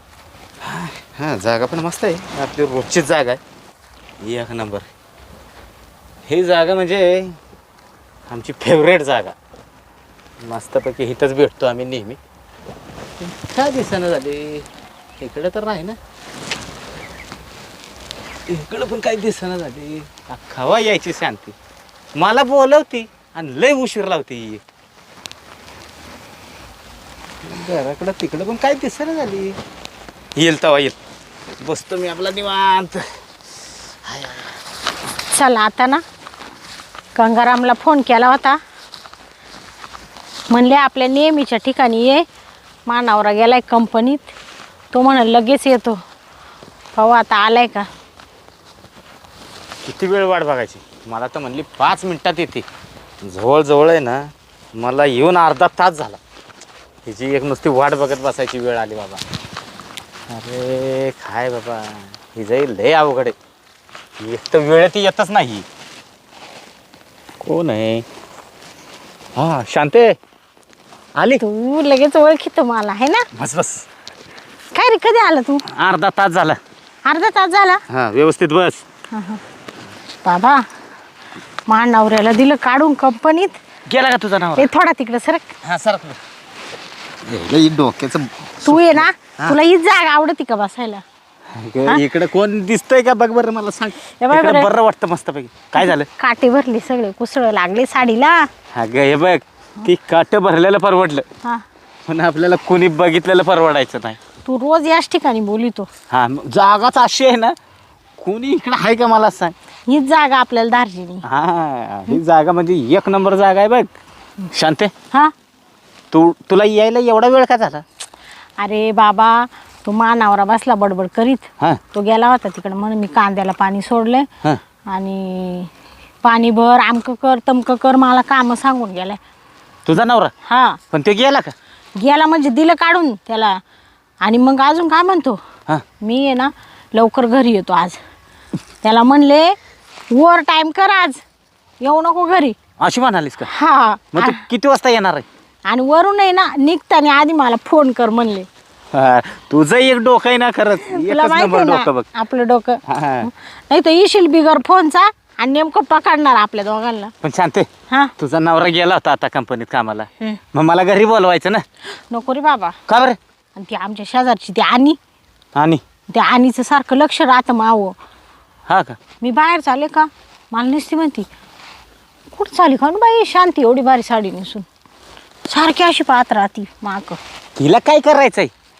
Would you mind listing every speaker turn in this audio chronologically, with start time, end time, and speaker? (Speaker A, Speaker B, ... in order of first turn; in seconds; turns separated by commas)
Speaker A: 0.6-3.4, Speaker A: 4.2-4.9, Speaker A: 6.3-7.4, Speaker A: 8.3-9.3, Speaker A: 10.4-12.2, Speaker A: 13.2-14.7, Speaker A: 15.2-16.0, Speaker A: 18.5-21.6, Speaker A: 22.2-24.6, Speaker A: 27.4-29.6, Speaker A: 30.4-31.0, Speaker A: 31.6-33.0, Speaker A: 34.1-34.4, Speaker B: 35.3-36.0, Speaker B: 37.2-38.6, Speaker B: 40.5-42.2, Speaker B: 42.9-44.3, Speaker B: 44.9-46.0, Speaker B: 47.0-47.9, Speaker A: 49.8-52.6, Speaker A: 53.2-56.2, Speaker A: 57.1-59.2, Speaker A: 60.3-63.4, Speaker A: 64.2-65.7, Speaker A: 67.4-68.0, Speaker A: 69.4-70.2, Speaker A: 71.2-71.4, Speaker B: 71.4-73.3, Speaker A: 73.3-73.8, Speaker B: 74.7-75.7, Speaker A: 75.7-76.6, Speaker B: 77.0-77.8, Speaker A: 77.9-78.8, Speaker B: 79.1-79.4, Speaker B: 80.2-80.7, Speaker B: 81.7-83.6, Speaker A: 83.9-84.7, Speaker B: 84.6-85.5, Speaker A: 85.6-86.2, Speaker A: 87.3-89.6, Speaker B: 88.6-91.0, Speaker A: 91.5-96.1, Speaker B: 94.2-94.7, Speaker B: 95.8-98.5, Speaker A: 98.7-101.2, Speaker A: 102.1-104.2, Speaker B: 104.5-105.9, Speaker A: 106.1-107.6, Speaker A: 108.2-109.5, Speaker B: 109.9-111.2, Speaker A: 111.3-113.9, Speaker A: 114.5-114.9, Speaker A: 116.1-117.8, Speaker B: 118.6-124.3, Speaker B: 124.9-125.7, Speaker B: 126.2-129.2, Speaker A: 129.9-130.3, Speaker B: 130.5-130.8, Speaker A: 130.9-131.6, Speaker B: 132.0-133.6, Speaker B: 134.2-135.4, Speaker B: 136.0-138.0, Speaker B: 138.8-139.6, Speaker B: 140.1-141.2, Speaker B: 141.8-142.6, Speaker A: 142.8-143.5, Speaker B: 143.5-144.4, Speaker A: 144.2-145.2, Speaker B: 145.7-148.5, Speaker A: 148.9-152.1, Speaker B: 150.9-157.1, Speaker A: 152.9-153.3, Speaker A: 157.2-161.6, Speaker B: 162.1-162.8, Speaker A: 162.9-163.2, Speaker B: 163.6-165.0, Speaker A: 165.6-165.8, Speaker B: 166.1-168.0, Speaker A: 168.7-169.0, Speaker B: 169.2-171.3, Speaker B: 172.3-174.7, Speaker B: 175.5-177.2, Speaker A: 177.6-178.5